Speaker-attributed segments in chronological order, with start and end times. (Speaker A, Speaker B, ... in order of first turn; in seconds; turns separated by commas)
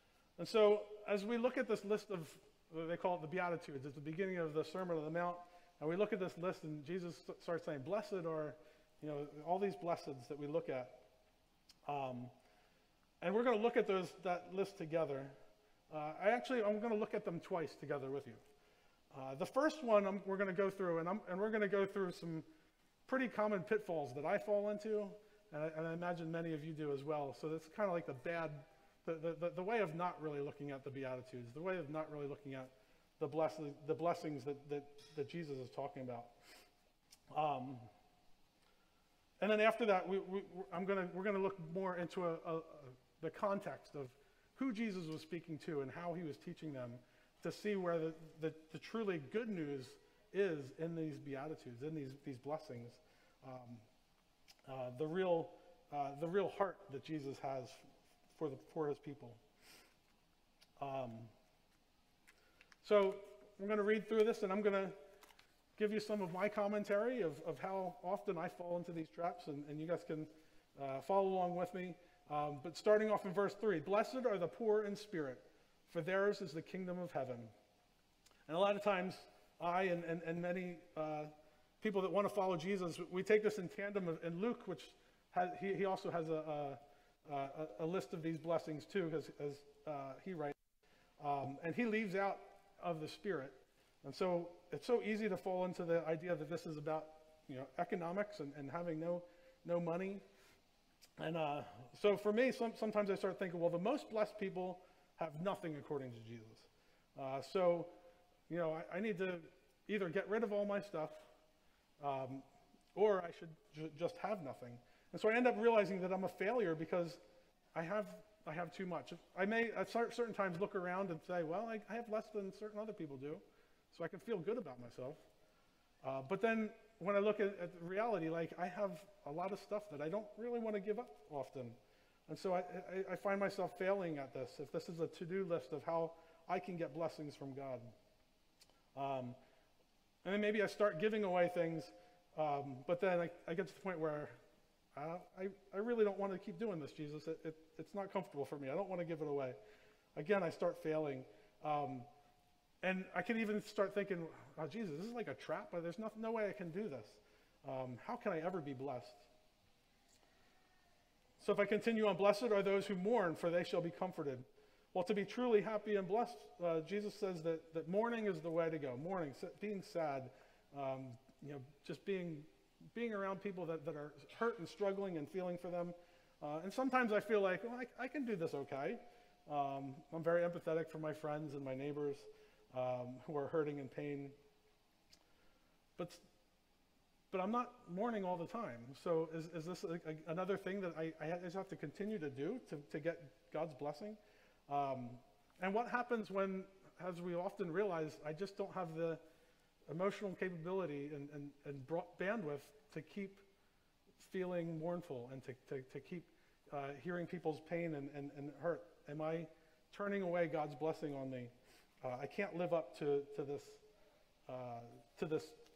Speaker A: 0.4-11.0, Speaker A: 11.9-12.3, Speaker A: 13.2-15.3, Speaker A: 15.9-18.4, Speaker A: 19.1-22.5, Speaker A: 23.1-36.3, Speaker A: 37.3-37.9, Speaker A: 39.4-53.8, Speaker A: 54.7-57.8, Speaker A: 58.3-59.4, Speaker A: 60.8-61.3, Speaker A: 62.8-65.0, Speaker A: 65.8-77.5, Speaker A: 78.5-90.6, Speaker A: 91.2-100.2, Speaker A: 101.2-107.9, Speaker A: 108.5-111.3, Speaker A: 112.0-117.2, Speaker A: 117.8-125.2, Speaker A: 126.0-131.8, Speaker A: 132.3-137.9, Speaker A: 138.9-139.4, Speaker A: 140.2-144.4, Speaker A: 144.9-149.6, Speaker A: 150.2-152.1, Speaker A: 152.8-159.2, Speaker A: 161.4-184.3, Speaker A: 186.0-186.2, Speaker A: 187.3-199.2, Speaker A: 199.9-203.4, Speaker A: 204.2-211.5, Speaker A: 212.0-213.8, Speaker A: 214.5-215.6